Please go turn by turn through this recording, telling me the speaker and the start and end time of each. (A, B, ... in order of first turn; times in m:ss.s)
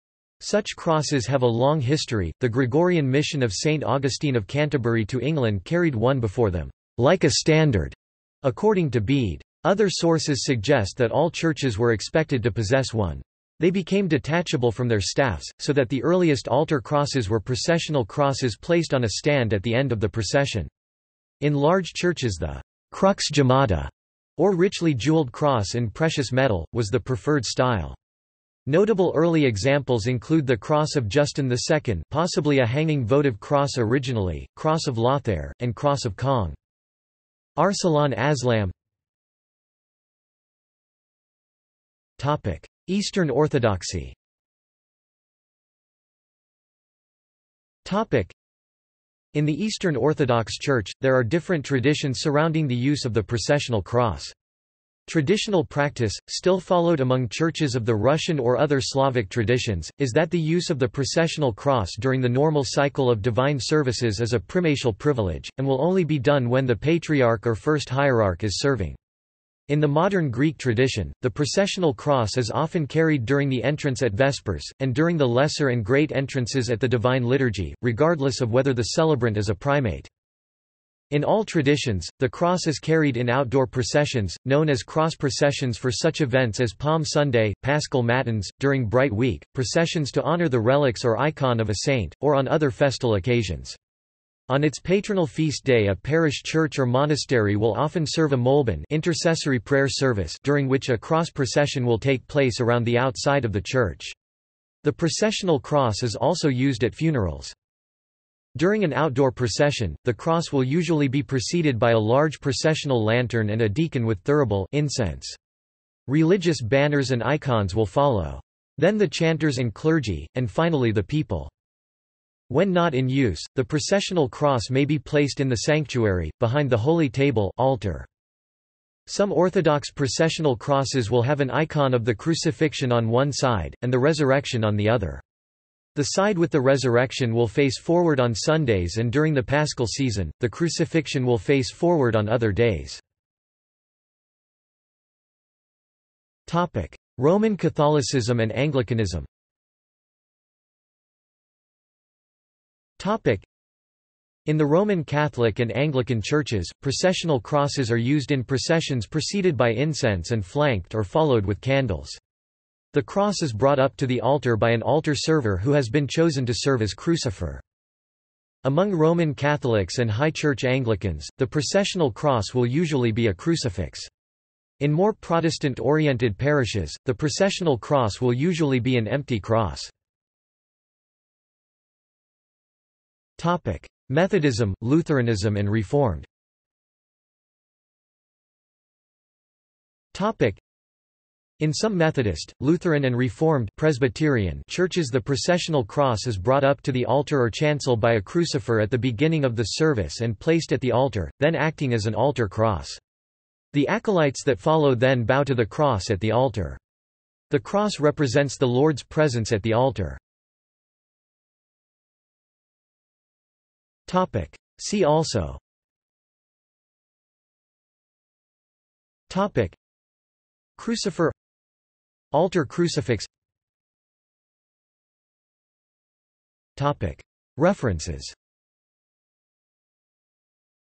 0:00.4-0:20.7 A
0:21.4-0:28.0 A
0:28.7-0:36.6 A
0:37.6-0:38.7 A
0:42.2-0:44.2 A
0:47.8-0:48.4 A
0:49.3-0:54.3 A
0:55.1-1:09.0 A
1:09.7-1:20.1 A
1:21.1-1:33.8 A
1:34.5-1:44.2 A
1:44.8-1:47.6 A
1:48.6-1:55.4 A
1:56.1-2:01.5 A
2:02.5-2:08.1 A
2:09.1-2:15.2 A
2:16.0-2:23.0 A
2:26.5-2:29.3 A
2:33.0-2:33.5 A
2:34.5-2:42.2 A
2:42.9-2:47.6 A
2:48.6-2:54.1 A
2:54.8-2:59.9 A
3:03.4-3:06.3 A
3:10.1-3:10.6 A
3:11.6-3:23.0 A
3:23.7-3:26.8 A
3:27.5-3:30.2 A
3:34.1-3:35.6 A
3:39.3-3:39.8 A
3:40.8-3:41.4 A
3:42.3-3:43.3 A
3:46.8-3:48.4 A